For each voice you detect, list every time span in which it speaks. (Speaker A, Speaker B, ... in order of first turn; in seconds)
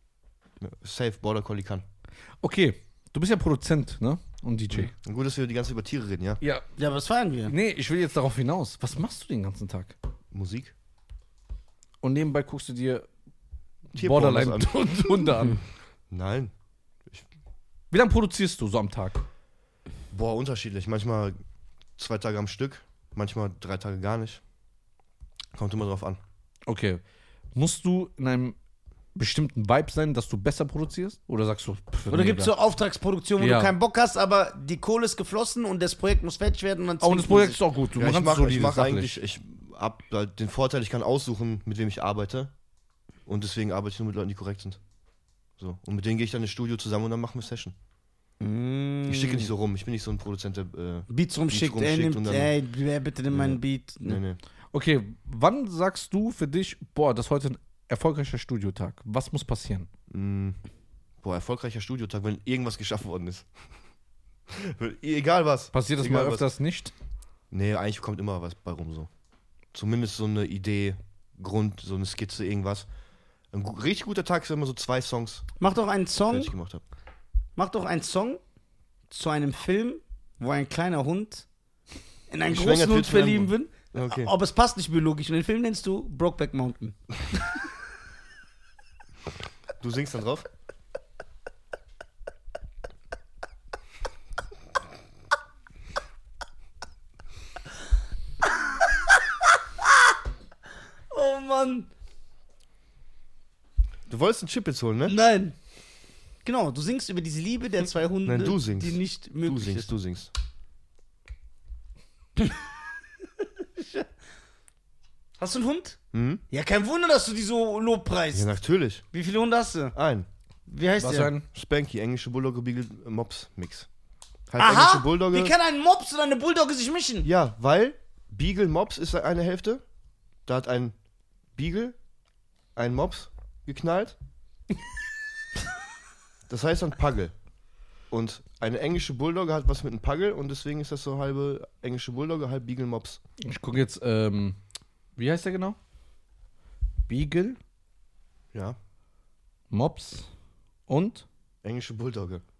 Speaker A: 0.6-1.8, 4.7-6.4, 10.3-10.7, 13.9-15.3, 16.1-16.5, 20.1-21.3, 22.0-24.4, 25.5-26.2, 37.9-42.5, 43.2-44.8, 45.6-47.7, 49.1-52.5, 53.3-54.4, 60.1-60.6, 61.2-63.5, 64.5-66.5, 67.5-69.1, 69.7-72.9, 73.5-75.5, 76.3-76.8, 82.5-84.3, 89.8-90.5, 104.1-105.2, 108.2-110.3, 116.1-116.4, 118.3-119.0, 119.9-120.3, 121.5-123.9, 124.5-125.5, 127.2-129.8, 130.4-130.9, 131.6-131.9, 132.8-134.2, 136.5-137.3, 138.1-143.2, 151.6-152.4
Speaker B: 2.4-4.9, 7.5-9.9, 12.0-13.1, 13.9-15.6, 17.9-19.2, 26.7-27.0, 27.5-28.6, 29.1-32.5, 33.4-33.7, 37.0-39.2, 54.7-59.9, 65.7-66.9, 121.0-121.5, 143.4-144.6, 145.2-145.8, 147.1-147.6, 149.7-150.3, 150.9-151.2
Speaker C: 6.8-7.5, 32.1-37.6, 48.4-49.5, 51.1-54.2, 75.6-76.5, 77.6-78.4, 79.1-81.5, 82.3-87.5, 101.1-101.9, 105.1-105.5, 106.4-109.9, 113.8-114.0, 115.4-116.0, 116.5-118.5, 119.1-119.9, 120.7-121.3, 124.6-127.3